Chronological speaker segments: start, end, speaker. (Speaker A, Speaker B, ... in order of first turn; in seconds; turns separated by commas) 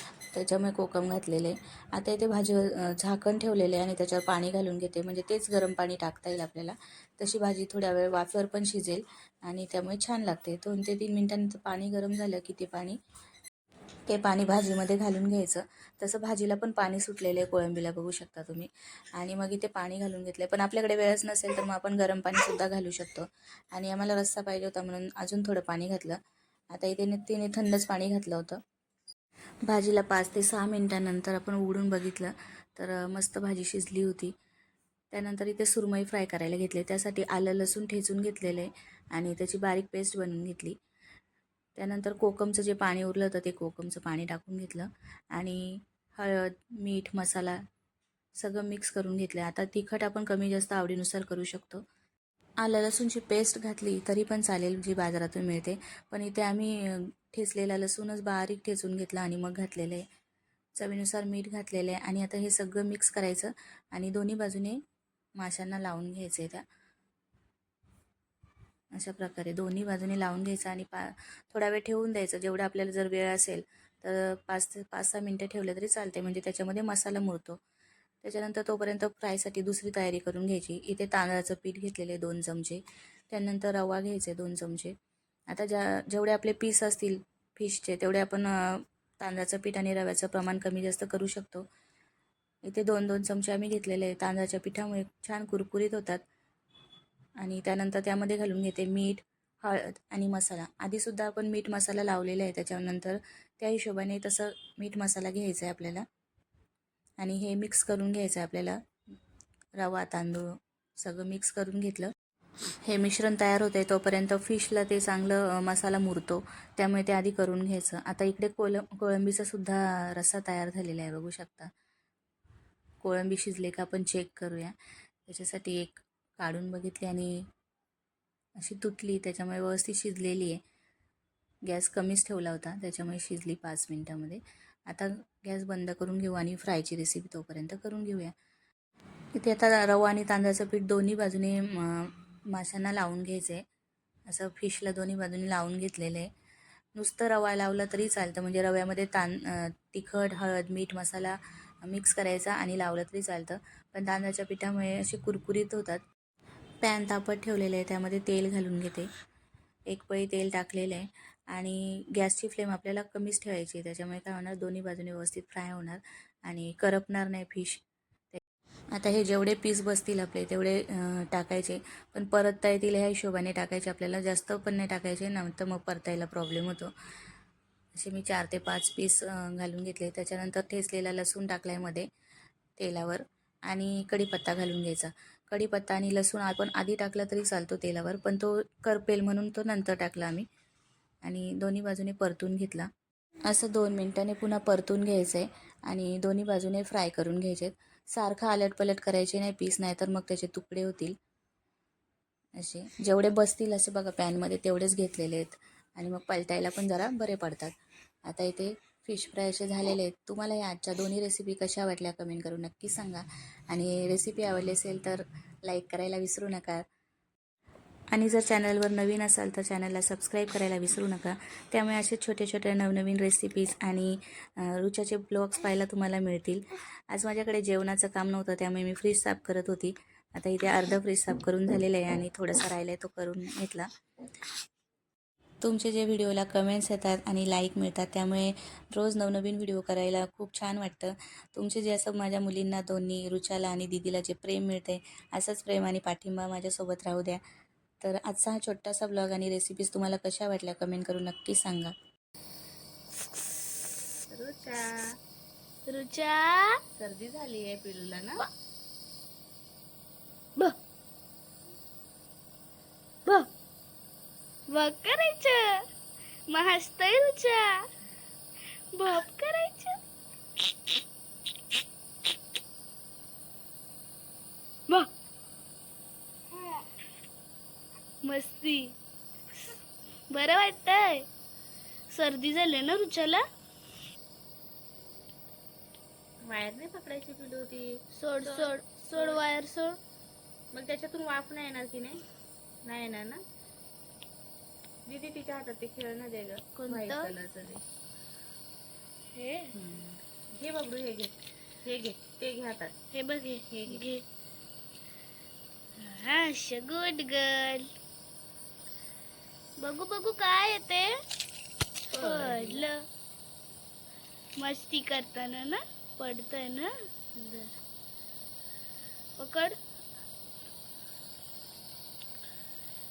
Speaker A: 0.3-13.0, Speaker A: 14.1-26.2, Speaker A: 26.7-28.6, Speaker A: 29.7-34.3, Speaker A: 35.1-40.8, Speaker A: 41.8-47.6, Speaker A: 48.4-51.8, Speaker A: 52.6-60.0, Speaker A: 60.8-64.8, Speaker A: 65.4-66.6, Speaker A: 68.9-77.6, Speaker A: 78.2-84.9, Speaker A: 85.5-91.7, Speaker A: 92.6-96.2, Speaker A: 97.4-106.0, Speaker A: 107.2-108.8, Speaker A: 109.8-112.1, Speaker A: 112.8-121.7, Speaker A: 123.0-124.7, Speaker A: 125.3-127.5, Speaker A: 128.6-130.6, Speaker A: 131.7-138.3, Speaker A: 139.3-143.6, Speaker A: 144.3-146.3, Speaker A: 146.9-156.0, Speaker A: 156.8-159.1, Speaker A: 159.9-168.4, Speaker A: 168.9-176.9, Speaker A: 177.9-182.1, Speaker A: 182.8-190.5, Speaker A: 191.2-192.9, Speaker A: 193.4-201.1, Speaker A: 202.6-207.7, Speaker A: 208.2-216.8, Speaker A: 218.1-233.9, Speaker A: 235.6-247.4, Speaker A: 248.0-251.9, Speaker B: 254.3-255.1, Speaker C: 255.9-256.8, Speaker B: 257.0-258.4, Speaker C: 264.7-265.8, Speaker C: 266.5-267.8, Speaker C: 268.9-270.0, Speaker C: 278.2-278.9, Speaker C: 280.3-281.3, Speaker C: 282.1-283.4, Speaker B: 286.4-289.4, Speaker C: 288.1-290.0, Speaker B: 290.7-292.2, Speaker B: 292.8-293.4, Speaker B: 295.1-297.8, Speaker C: 296.7-297.3, Speaker C: 299.3-299.7, Speaker B: 299.8-302.9, Speaker C: 303.1-304.2, Speaker B: 303.7-304.0, Speaker C: 306.0-307.9, Speaker C: 309.8-311.2, Speaker C: 312.1-313.1, Speaker B: 312.1-312.9, Speaker C: 314.6-317.8, Speaker C: 319.4-319.8